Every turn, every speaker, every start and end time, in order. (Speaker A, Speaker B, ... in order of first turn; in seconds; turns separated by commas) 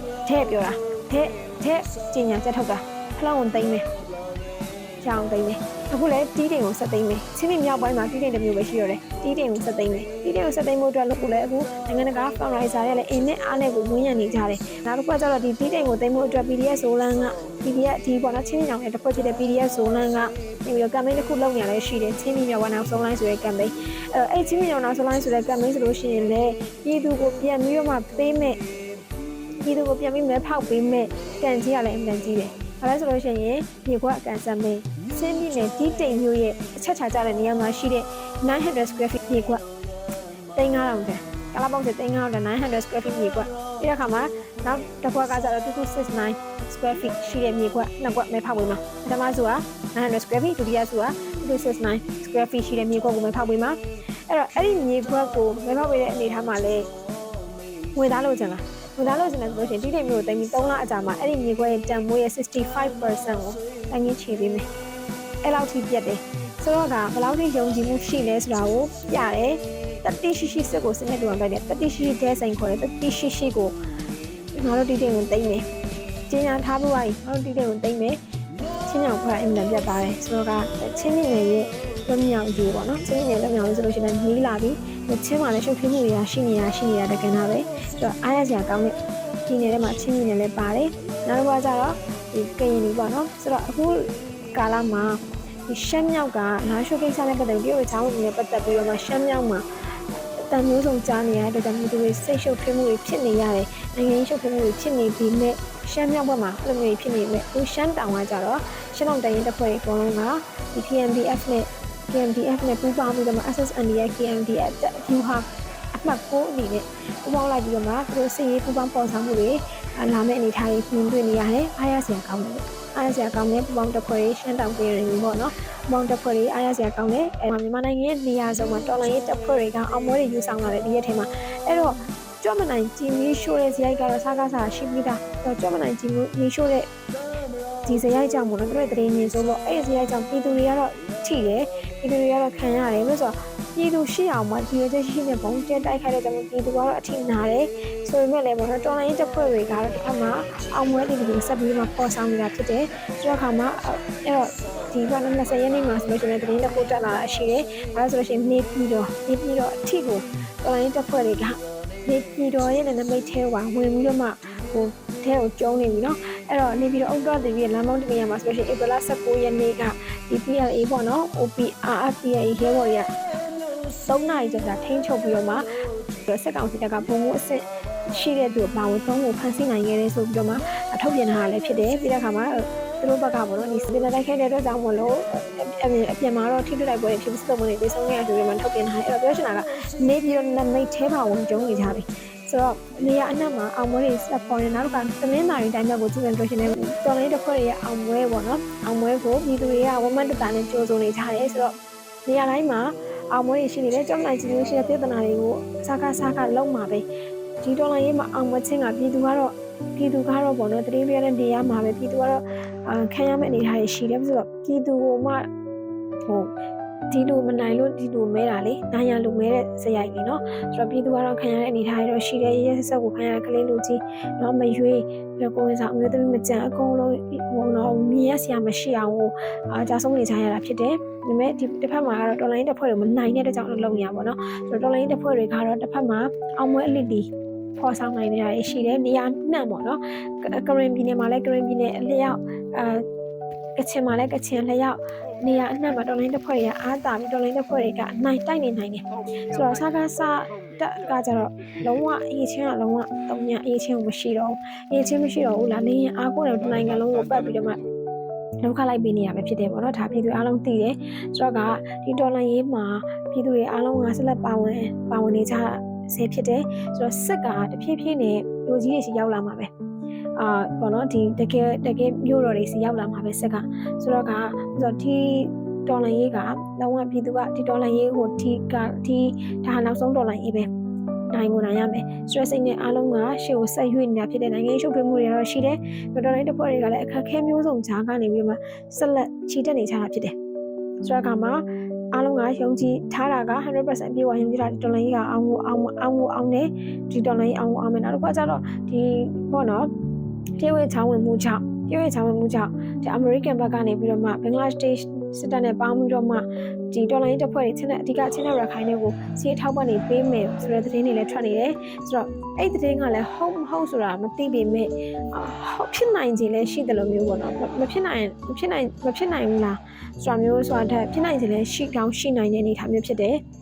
Speaker A: 0.2-3.9, Speaker A: 5.0-28.6, Speaker A: 29.6-39.6, Speaker A: 40.5-56.9, Speaker A: 57.9-64.7, Speaker A: 65.4-73.8, Speaker A: 74.5-75.7, Speaker A: 76.3-78.2, Speaker A: 78.8-99.6, Speaker A: 100.4-136.9, Speaker A: 137.8-173.1, Speaker A: 174.0-175.7, Speaker A: 176.3-201.7, Speaker A: 202.2-207.0, Speaker A: 207.6-215.5, Speaker A: 216.3-216.5, Speaker A: 217.1-243.0, Speaker A: 243.8-257.8, Speaker A: 258.6-269.7, Speaker A: 270.4-280.7, Speaker A: 281.3-290.3, Speaker A: 291.0-299.9, Speaker A: 300.6-323.4